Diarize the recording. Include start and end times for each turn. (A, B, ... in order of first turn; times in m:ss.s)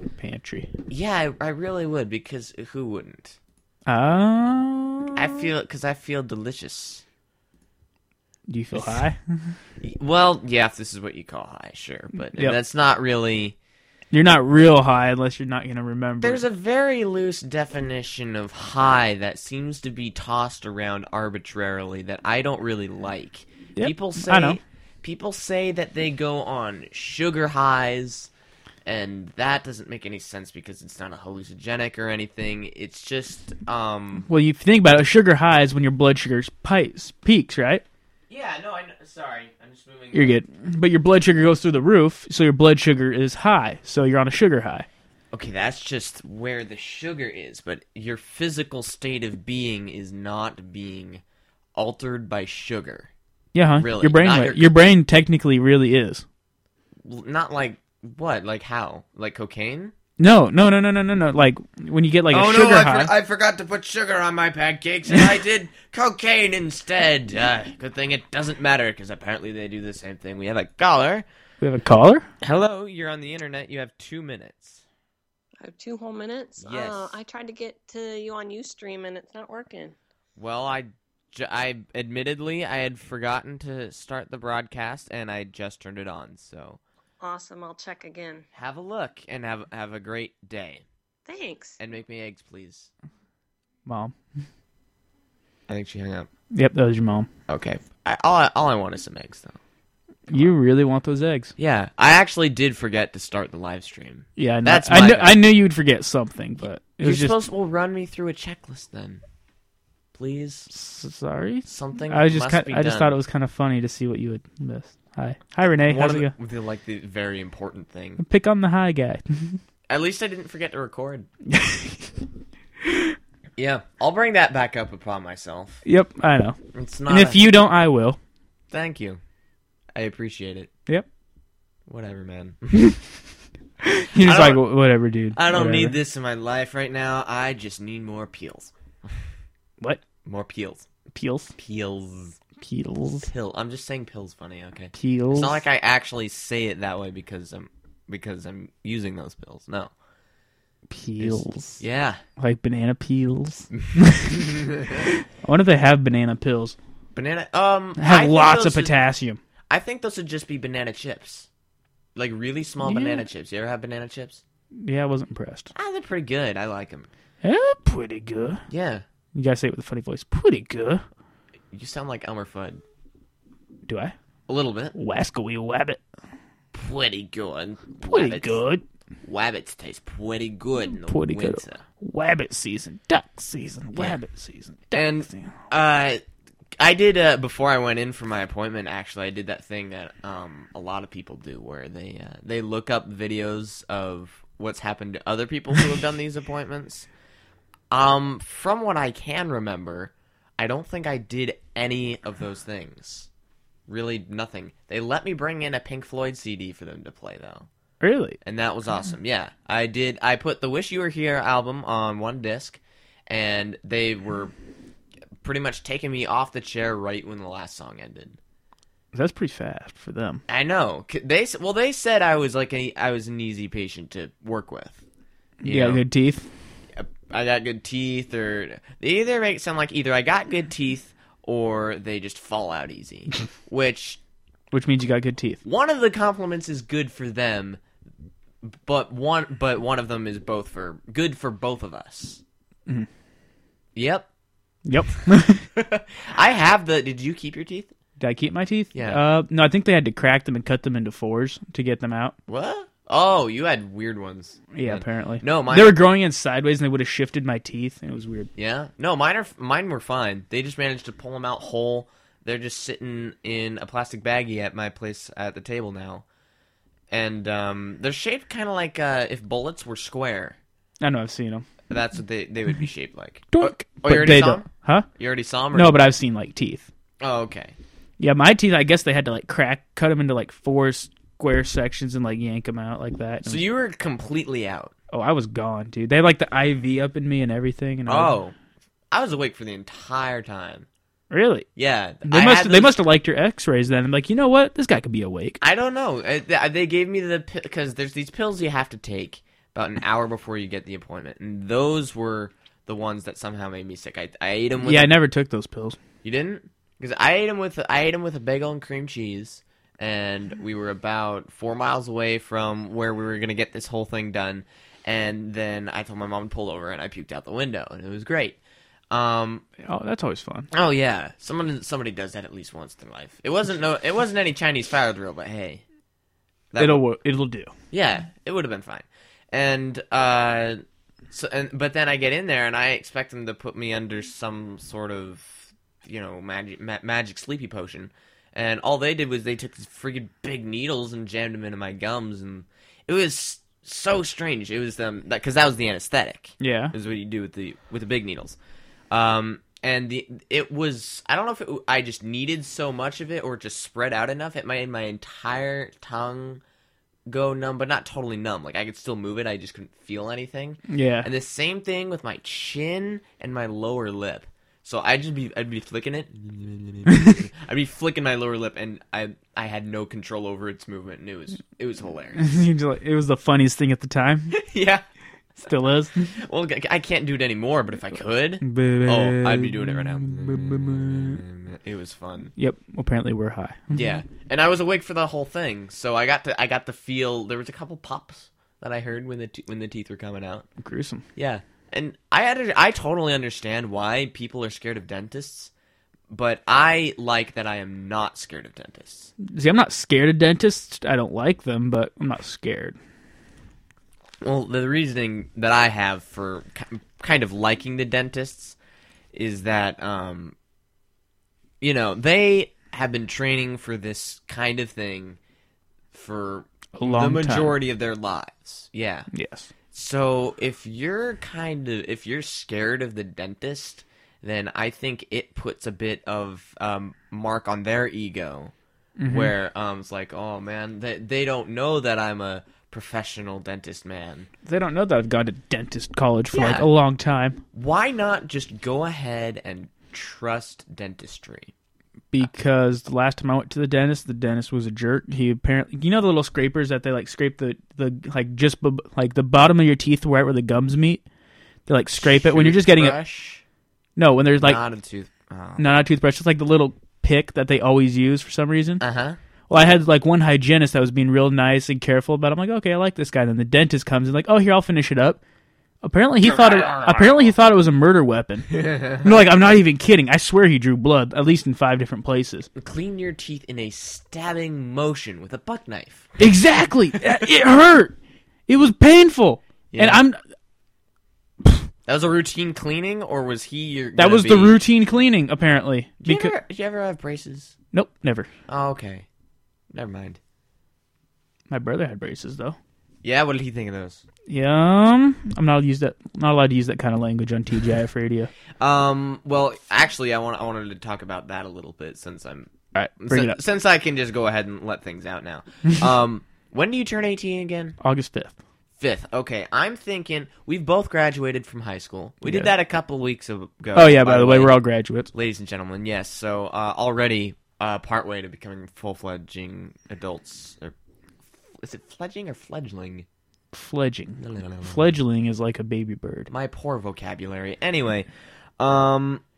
0:00.2-0:00.7 A
0:00.9-0:03.4 B
0:03.9-0:05.5 A
0:05.1-0:07.0 B
0:08.5-0:09.6 A
0:08.7-0:09.1 B
0:09.8-0:13.6 B
0:12.3-0:12.6 A
0:14.1-0:16.4 A
0:16.2-0:28.3 B
0:23.8-0:24.6 A
0:28.8-0:34.2 B
0:34.3-0:37.8 A
0:38.3-0:40.4 B
0:40.1-0:44.9 A
0:45.3-0:51.2 B
0:51.7-0:53.1 B
0:53.5-0:56.2 A
0:53.8-0:54.8 B
0:57.0-0:59.9 B
1:00.2-1:03.1 A
1:02.3-1:11.2 B
1:11.6-1:12.3 A
1:12.4-1:14.8 B
1:15.6-1:19.9 C
1:16.6-1:17.2 B
1:20.4-1:26.8 B
1:27.2-1:28.4 C
1:28.5-1:30.8 B
1:31.2-1:31.8 C
1:31.8-1:32.9 B
1:33.8-1:34.1 A
1:35.7-1:36.3 B
1:36.5-1:37.3 A
1:37.5-1:39.6 B
1:40.3-1:41.5 A
1:41.6-1:45.4 B
1:44.4-1:47.3 A
1:47.0-1:49.2 B
1:50.1-1:50.7 B
1:50.7-1:56.3 A
1:51.6-1:53.1 B
1:55.9-1:58.2 B
1:58.2-1:59.6 A
1:59.9-2:01.3 B
2:01.4-2:02.1 A
2:02.8-2:03.2 A
2:03.6-2:05.8 B
2:05.8-2:08.2 A
2:06.7-2:07.4 B
2:08.7-2:09.2 B
2:09.9-2:10.7 B
2:11.9-2:12.8 B
2:12.7-2:13.0 A
2:13.8-2:16.0 A
2:14.1-2:14.6 B
2:15.3-2:19.2 B
2:20.2-2:20.9 B
2:21.1-2:21.5 A
2:21.6-2:22.4 B
2:22.6-2:23.3 A
2:23.2-2:29.9 B
2:25.0-2:25.6 A
2:30.9-2:31.8 A
2:31.2-2:32.2 B
2:32.4-2:36.8 A
2:34.3-2:35.1 B
2:37.1-2:39.0 B
2:38.0-2:39.4 A
2:39.7-2:41.5 B
2:42.1-2:44.4 B
2:42.8-2:43.2 A
2:44.8-2:45.7 A
2:45.7-2:47.1 B
2:47.4-2:48.6 A
2:48.7-2:49.0 B
2:49.3-2:51.0 A
2:51.7-2:52.8 B
2:53.9-2:54.1 A
2:54.5-2:54.9 B
2:54.9-2:56.0 A
2:56.7-2:58.6 B
2:58.0-2:58.8 A
2:59.2-3:01.8 B
3:01.0-3:05.6 A
3:04.9-3:06.2 B
3:06.8-3:17.1 B
3:17.9-3:23.3 B
3:23.9-3:27.7 B
3:28.0-3:28.4 A
3:28.4-3:34.5 B
3:35.4-3:38.4 B
3:39.1-3:40.4 A
3:40.5-3:45.0 B
3:45.6-3:46.0 B
3:45.6-3:46.5 A
3:46.9-3:54.2 B
3:54.7-3:55.6 A
3:55.6-3:57.8 B
3:58.7-4:02.4 B
4:03.9-4:04.3 B
4:04.8-4:05.7 A
4:05.7-4:07.9 B
4:08.2-4:12.4 A
4:08.9-4:09.2 B
4:12.5-4:16.0 B
4:14.7-4:18.5 A
4:18.6-4:26.2 B
4:27.1-4:30.6 B
4:31.0-4:31.6 A
4:31.9-4:36.0 B
4:33.5-4:35.1 A
4:35.7-4:36.9 A
4:37.2-4:37.8 B
4:38.2-4:43.6 A
4:43.4-4:44.9 B
4:45.1-4:48.4 A
4:48.0-4:48.5 B
4:49.1-4:50.9 B
4:51.3-4:51.7 A
4:51.8-4:53.0 B
4:52.2-4:55.6 A
4:55.6-5:05.1 B
5:04.8-5:06.0 A
5:06.2-5:18.6 B
5:19.1-5:19.6 B
5:19.8-5:20.7 A
5:20.7-5:25.8 B
5:26.7-5:27.0 B
5:26.8-5:27.7 A
5:27.9-5:48.6 B
5:46.6-5:46.9 A
5:49.1-5:56.6 B
5:57.3-6:12.4 B
6:00.9-6:01.3 A
6:07.1-6:07.4 A
6:12.4-6:14.6 A
6:14.5-6:15.0 B
6:15.5-6:22.5 B
6:15.6-6:16.4 A
6:18.6-6:21.4 A
6:22.6-6:24.1 A
6:23.9-6:30.7 B
6:30.8-6:31.2 A
6:31.4-6:35.7 B
6:36.3-6:39.3 B
6:39.4-6:43.0 A
6:44.4-6:48.8 B
6:49.3-6:50.5 B
6:51.8-6:55.4 B
6:56.1-6:59.3 B
6:56.9-6:57.8 A
6:59.3-6:59.7 A
6:59.9-7:08.7 B
7:09.2-7:09.5 A
7:09.2-7:14.5 B
7:14.6-7:17.6 A
7:16.5-7:16.9 B
7:17.7-7:21.7 B
7:22.3-7:31.2 A
7:31.9-7:33.2 A
7:32.2-7:33.6 B
7:34.2-7:34.8 A
7:34.6-7:35.9 B
7:35.8-7:39.0 A
7:39.0-7:39.4 B
7:39.7-7:45.4 A
7:46.0-7:52.7 A
7:46.4-7:47.5 B
7:48.7-7:49.3 B
7:52.8-7:56.4 B
7:56.4-7:58.2 A
7:58.7-8:00.4 A
7:59.9-8:00.2 B
8:02.0-8:04.8 B
8:04.2-8:06.5 A
8:06.2-8:07.7 B
8:07.9-8:08.5 A
8:08.7-8:09.3 B
8:09.9-8:10.4 B
8:11.7-8:12.8 A
8:13.2-8:14.2 B
8:14.5-8:18.5 A
8:18.8-8:28.0 B
8:22.9-8:23.6 A
8:28.0-8:28.6 A
8:29.0-8:34.8 B
8:32.4-8:32.7 A
8:33.9-8:35.3 A
8:35.3-8:40.9 B
8:41.7-8:43.3 B
8:43.7-8:46.5 A
8:44.4-8:45.1 B
8:46.5-8:48.3 B
8:48.8-8:49.4 B